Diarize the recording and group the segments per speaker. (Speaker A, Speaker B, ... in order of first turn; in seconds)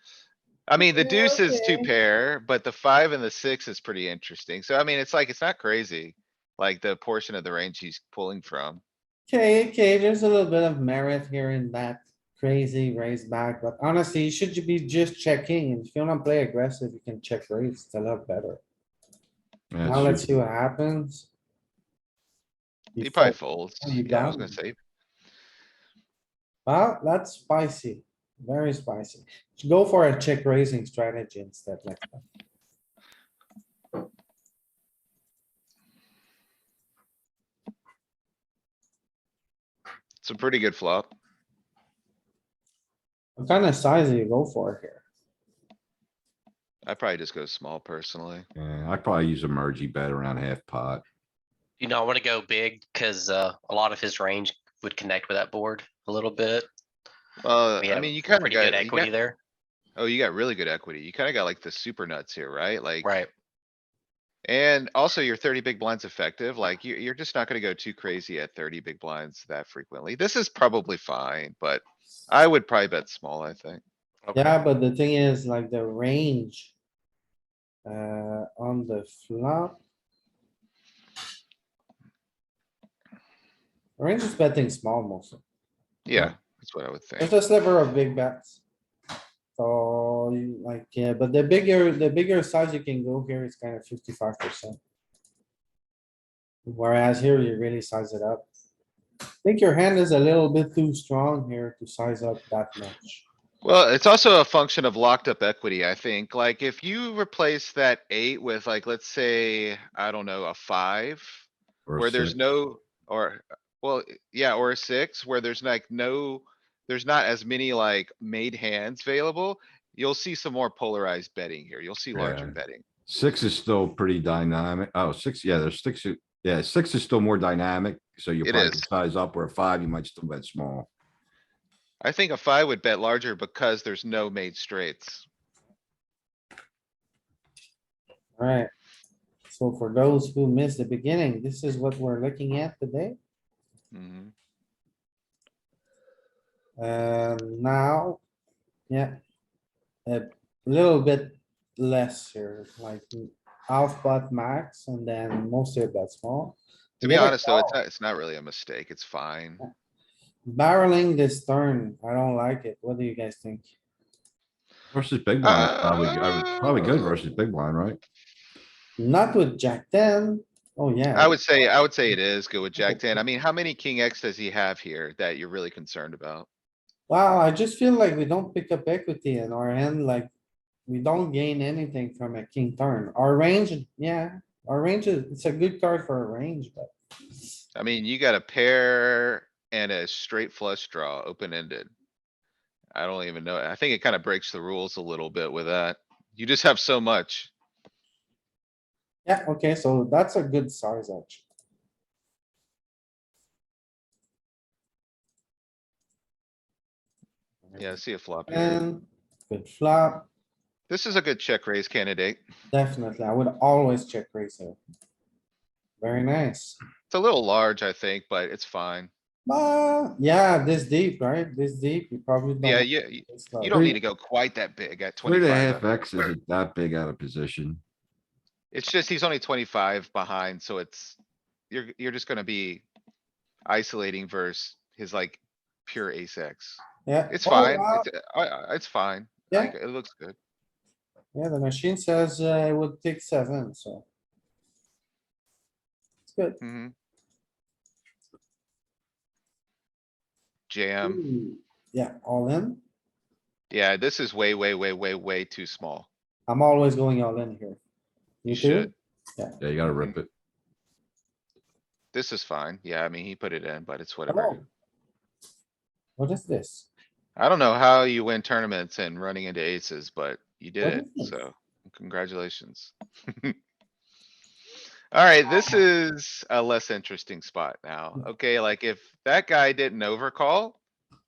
Speaker A: 0.7-8.8, 23.0-24.8, 40.2-41.1, 46.9-48.5, 57.4-59.1, 60.0-63.1, 64.5-73.8, 86.1-87.3, 103.6-111.5, 112.0-122.8, 128.4-128.9, 132.0-135.2, 143.9-144.3, 157.0-159.6, 165.4-167.2, 171.2-176.5, 187.8-191.9, 192.9-197.5, 207.8-208.8, 210.9-212.4, 217.1-219.1, 222.6-225.8, 228.7-231.2, 231.7-232.8, 233.7-240.4, 246.6-246.9, 250.7-251.2, 253.7-256.1, 258.5-258.9, 262.1-264.6, 267.4-273.6, 275.1-280.8
Speaker B: 0.8-1.9, 9.3-18.6, 19.9-21.3, 22.9-24.5, 26.7-32.2, 43.4-45.0, 74.3-76.7, 77.9-79.8, 84.0-85.4, 87.2-88.6, 89.6-94.8, 96.7-98.5, 99.4-103.2, 138.4-138.7, 139.5-143.2, 146.8-148.2, 148.9-149.2, 150.1-157.8, 160.5-163.7, 169.0-171.4, 177.1-180.3, 180.9-186.9, 199.3-201.4, 208.5-210.3, 212.7-214.8, 216.0-216.8, 219.5-224.0, 237.1-238.1, 241.3-244.1, 246.3-246.6, 251.0-252.8, 256.5-257.8, 258.4-259.6, 264.3-264.6, 266.2-266.9, 270.8-271.4
Speaker C: 19.7-20.2, 48.6-51.0, 111.9-112.3, 122.1-130.9, 164.9-168.0, 225.2-227.8, 259.6-260.3
Speaker D: 51.8-56.7, 57.8-59.4, 63.0-63.3, 74.3-74.5